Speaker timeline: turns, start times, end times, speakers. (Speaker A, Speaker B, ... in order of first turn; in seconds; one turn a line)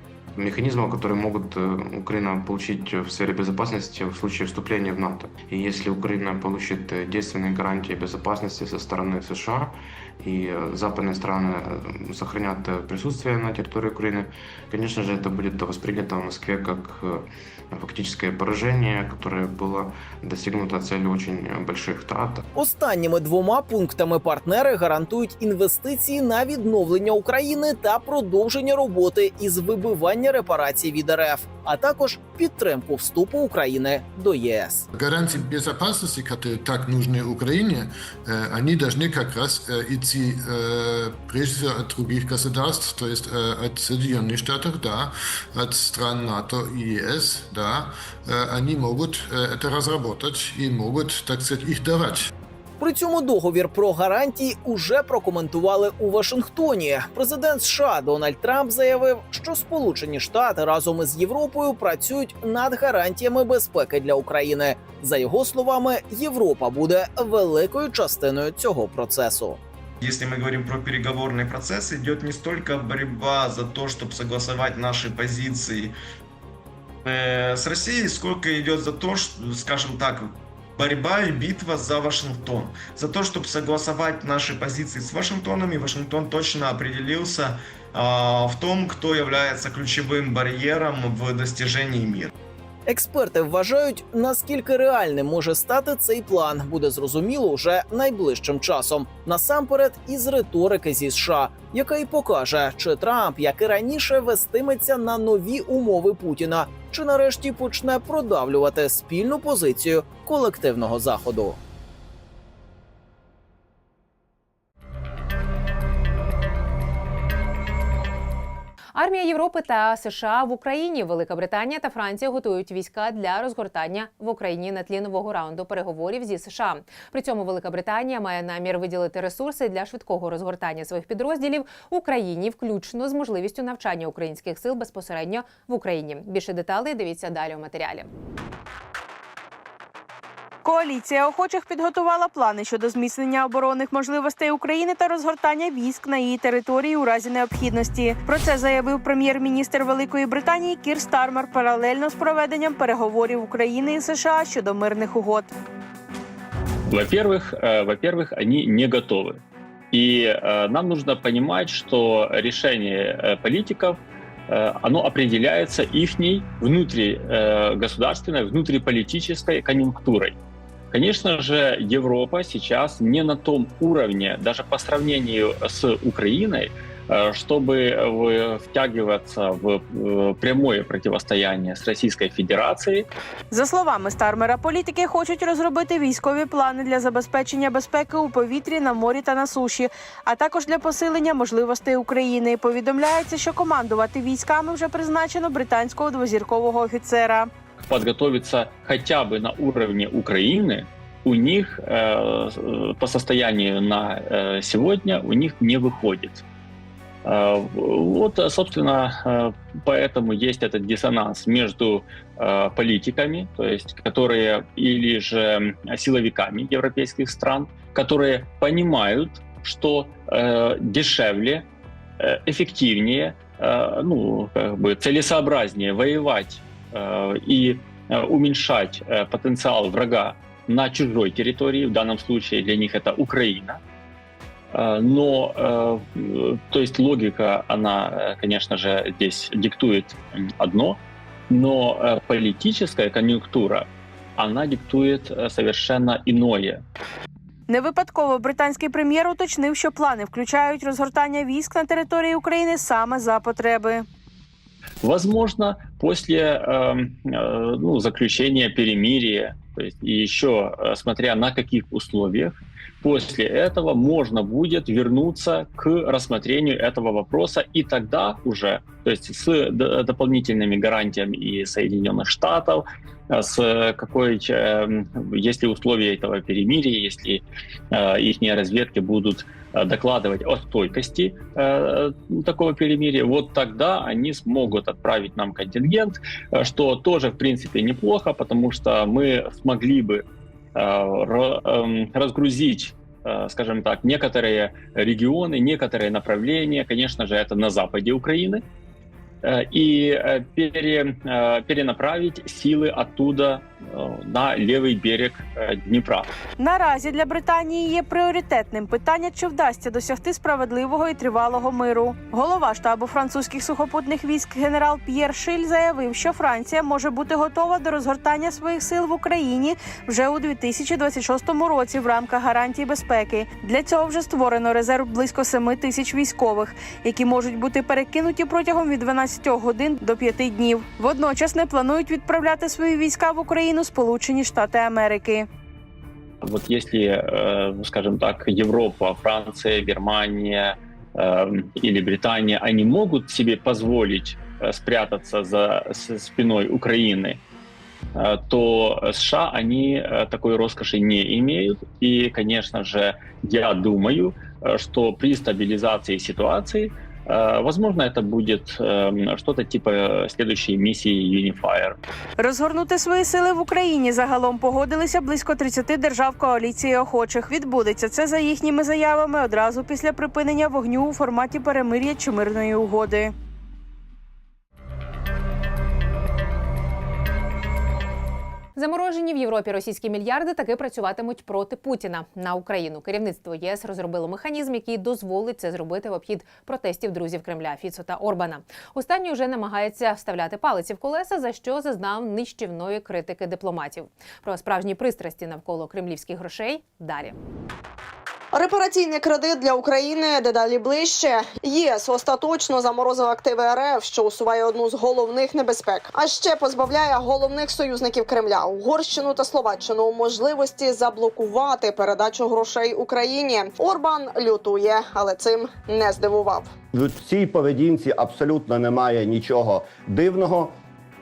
Speaker A: 0.4-22.4
Speaker B: 22.6-34.9
Speaker C: 34.9-52.3
Speaker B: 52.8-69.6
Speaker D: 70.0-76.0
Speaker D: 77.0-92.3
Speaker B: 92.9-111.6
Speaker E: 119.0-138.1
Speaker F: 140.6-155.5
Speaker G: 156.9-159.4
Speaker G: 159.9-164.0
Speaker G: 164.5-170.3
Speaker G: 170.9-183.1
Speaker F: 183.5-197.5
Speaker G: 197.8-206.4
Speaker G: 207.2-221.7
Speaker G: 222.2-233.8
Speaker G: 234.7-241.0
Speaker G: 241.5-246.8
Speaker F: 247.7-254.1
Speaker G: 255.0-290.2
Speaker G: 290.8-298.6
Speaker G: 299.4-306.3
Speaker F: 306.6-335.5
Speaker G: 336.4-347.4
Speaker G: 348.1-362.0
Speaker F: 362.4-373.3
Speaker E: 378.8-397.4
Speaker H: 398.5-416.7
Speaker I: 416.9-420.8